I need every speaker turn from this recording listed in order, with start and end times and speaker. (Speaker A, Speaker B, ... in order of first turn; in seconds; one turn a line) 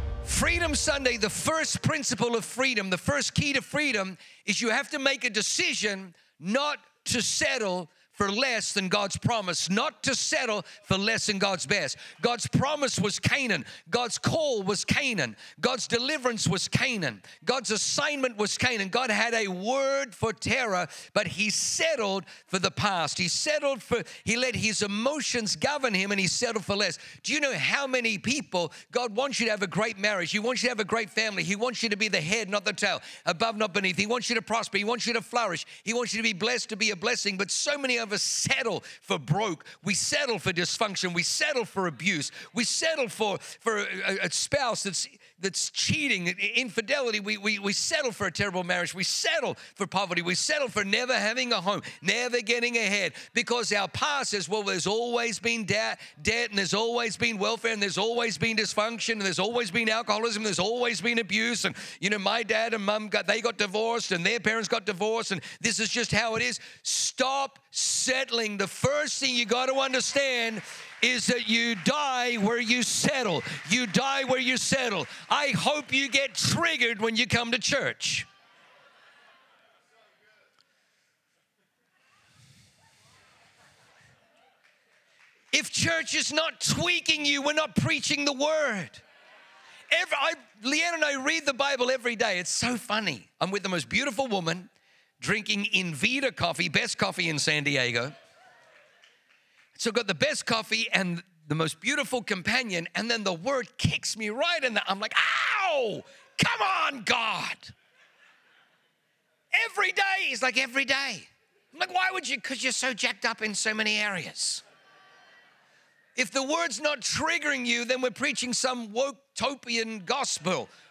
Speaker A: 0.2-78.3
Speaker A: 85.5-89.0
Speaker A: 89.9-98.2
Speaker A: 99.8-107.7
Speaker A: 109.5-114.6
Speaker A: 116.2-120.7